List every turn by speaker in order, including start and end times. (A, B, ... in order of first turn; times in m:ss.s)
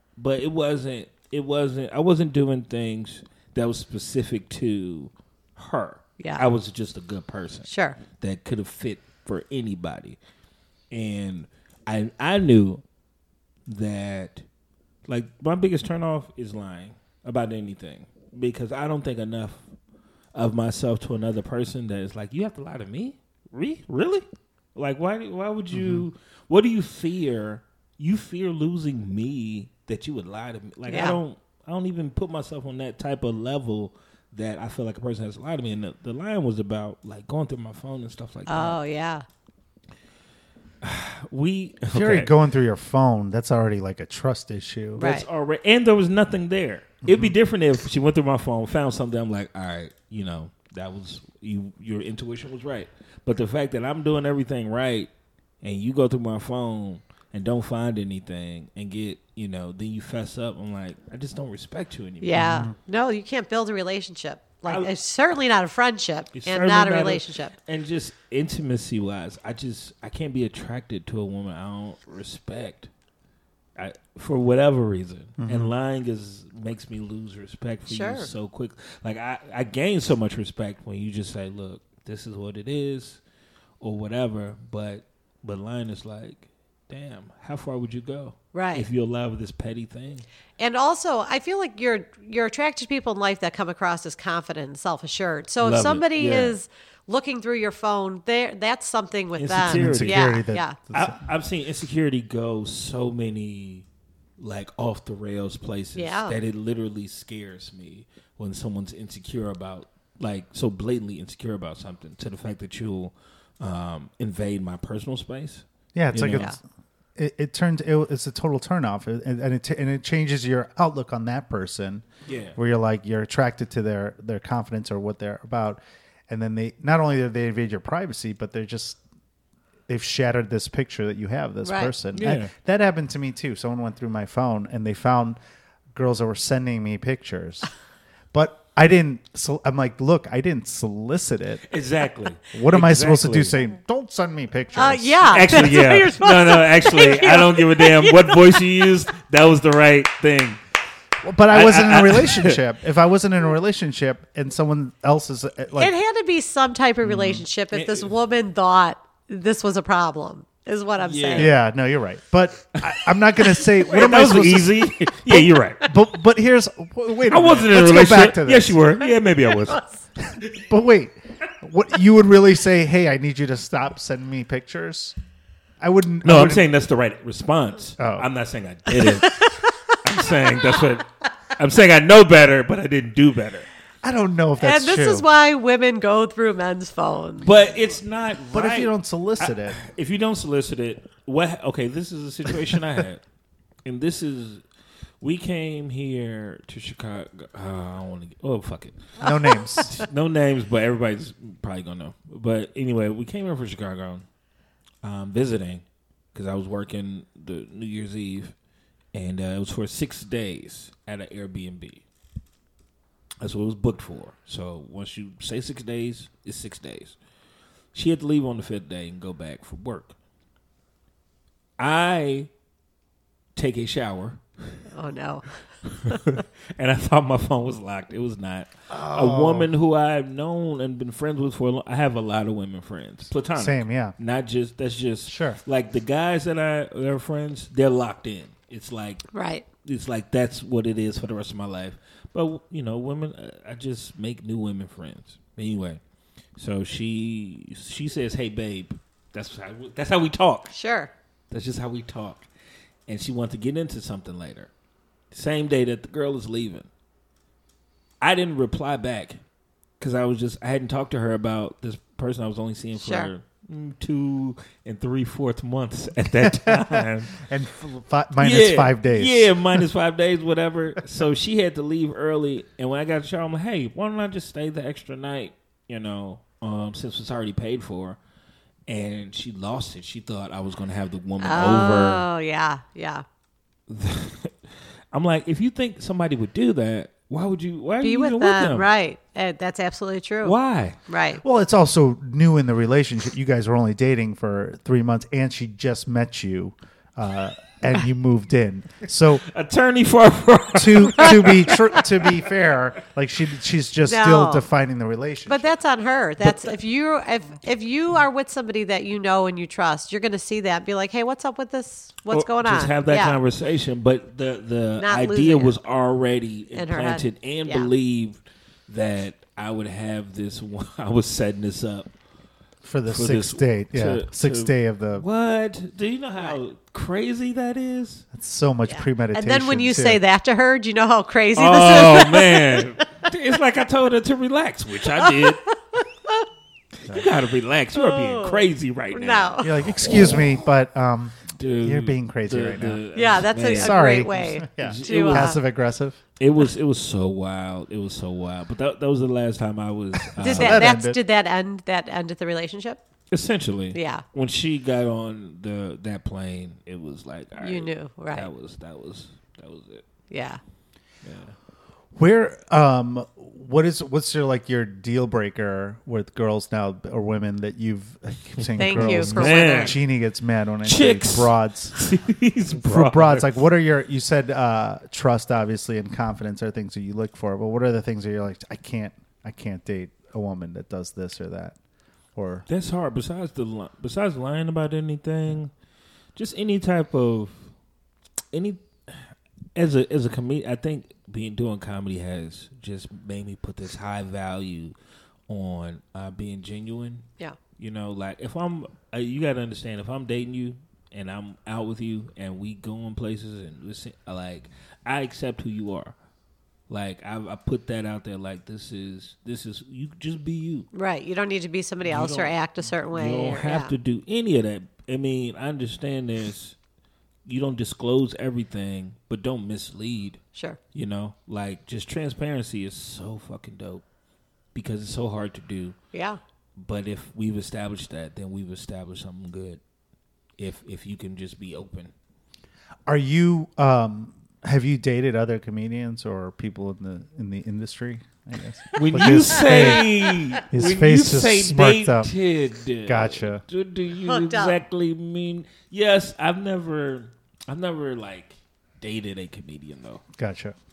0:00.2-0:10.2 A
0:07.7-0:08.0 B
0:10.9-0:12.8 A
0:13.7-0:14.4 A
0:15.1-0:19.6 A
0:20.3-0:38.8 A
0:25.7-0:26.1 C
0:30.9-0:31.2 B
0:38.5-0:39.2 B
0:40.8-0:42.3 A
0:41.9-0:45.0 C
0:45.0-0:55.1 A
0:45.0-0:45.3 B
0:47.0-0:47.4 C
0:55.6-1:02.6 A
1:02.2-1:07.5 B
1:02.4-1:02.7 C
1:06.3-1:12.9 A
1:13.8-1:23.2 A
1:15.4-1:15.7 C
1:17.9-1:18.3 B
1:23.8-1:30.3 A
1:28.5-1:28.9 B
1:30.6-1:40.8 B
1:35.6-1:36.6 A
1:39.4-1:43.9 A
1:39.6-1:41.2 C
1:44.4-1:56.5 A
1:46.0-1:46.4 B
1:55.9-1:56.6 C
1:57.2-2:02.0 C
2:02.3-2:02.6 A
2:02.6-2:09.0 C
2:09.9-2:15.4 C
2:11.6-2:11.9 B
2:12.2-2:12.5 A
2:15.9-2:17.7 C
2:18.3-2:21.6 C
2:21.7-2:23.6 A
2:22.5-2:25.7 C
2:24.8-2:28.9 B
2:25.3-2:30.6 A
2:31.2-2:35.9 C
2:31.5-2:32.6 A
2:35.8-2:41.5 B
2:37.1-2:37.4 C
2:37.7-2:38.1 A
2:41.0-2:41.6 A
2:41.4-2:48.8 C
2:42.8-2:46.0 A
2:47.3-2:49.9 A
2:50.3-2:55.2 C
2:55.8-2:56.7 C
2:56.2-3:03.7 A
2:58.0-2:58.3 C
2:59.0-2:59.6 B
3:04.0-3:05.2 C
3:04.6-3:07.5 B
3:07.4-3:13.2 A
3:08.5-3:09.8 C
3:13.8-3:14.6 A
3:15.2-3:24.3 A
3:19.2-3:20.0 C
3:19.2-3:19.8 B
3:25.0-3:28.5 A
3:29.1-3:32.0 A
3:33.4-3:37.2 A
3:37.9-3:40.2 A
3:41.8-3:42.5 A
3:43.6-3:44.4 A
3:44.9-3:45.5 B
3:45.9-3:59.2 A
3:48.9-3:49.7 C
3:53.6-3:54.2 C
3:55.3-3:55.6 C
3:59.3-3:59.6 B
3:59.8-4:06.0 A
4:06.6-4:10.7 A
4:10.7-4:11.1 B
4:11.5-4:12.5 A
4:13.1-4:14.7 A
4:15.3-4:16.9 A
4:18.2-4:19.4 A
4:20.0-4:27.4 A
4:23.0-4:23.3 B
4:26.2-4:29.9 C
4:28.4-4:38.2 A
4:38.9-4:42.2 A
4:41.4-4:43.2 B
4:43.9-4:44.6 A
4:45.1-4:48.9 A
4:48.0-4:50.6 B
4:50.4-4:51.0 A
4:51.1-4:51.4 B
4:51.4-4:59.4 C
4:59.4-5:02.5 A
5:00.8-5:05.7 C
5:04.1-5:04.7 B
5:05.5-5:13.4 B
5:12.3-5:22.1 A
5:15.0-5:15.8 B
5:16.7-5:17.9 B
5:22.8-5:25.3 C
5:23.1-5:28.2 A
5:28.3-5:30.2 C
5:28.9-5:33.2 B
5:31.6-5:35.6 A
5:35.2-5:36.4 B
5:37.1-5:40.5 A
5:37.9-5:39.9 B
5:39.6-5:43.0 C
5:41.5-5:45.6 A
5:43.2-5:45.6 B
5:43.7-5:46.2 C
5:46.4-5:50.8 A
5:50.2-5:51.2 C
5:50.4-5:53.0 B
5:53.3-6:00.0 A
5:53.9-5:54.2 B
5:57.6-5:58.5 B
6:00.3-6:00.6 B
6:01.2-6:01.6 A
6:02.2-6:12.0 C
6:08.6-6:10.0 A
6:08.8-6:10.0 B
6:10.8-6:13.6 A
6:12.7-6:21.8 C
6:22.4-6:22.6 C
6:22.7-6:25.7 A
6:26.4-6:27.6 A
6:28.5-6:34.9 A
6:35.5-6:37.2 A
6:37.8-6:46.1 A
6:46.9-6:50.9 A
6:50.9-6:53.9 B
6:52.0-6:56.8 A
6:57.5-7:00.4 A
7:00.9-7:04.0 A
7:04.7-7:06.0 A
7:06.1-7:06.4 B
7:06.8-7:09.8 A
7:10.6-7:12.1 A
7:13.1-7:20.1 C
7:18.9-7:20.4 B
7:19.0-7:30.2 A
7:20.7-7:22.3 C
7:23.1-7:23.6 C
7:24.2-7:24.8 B
7:30.4-7:30.8 C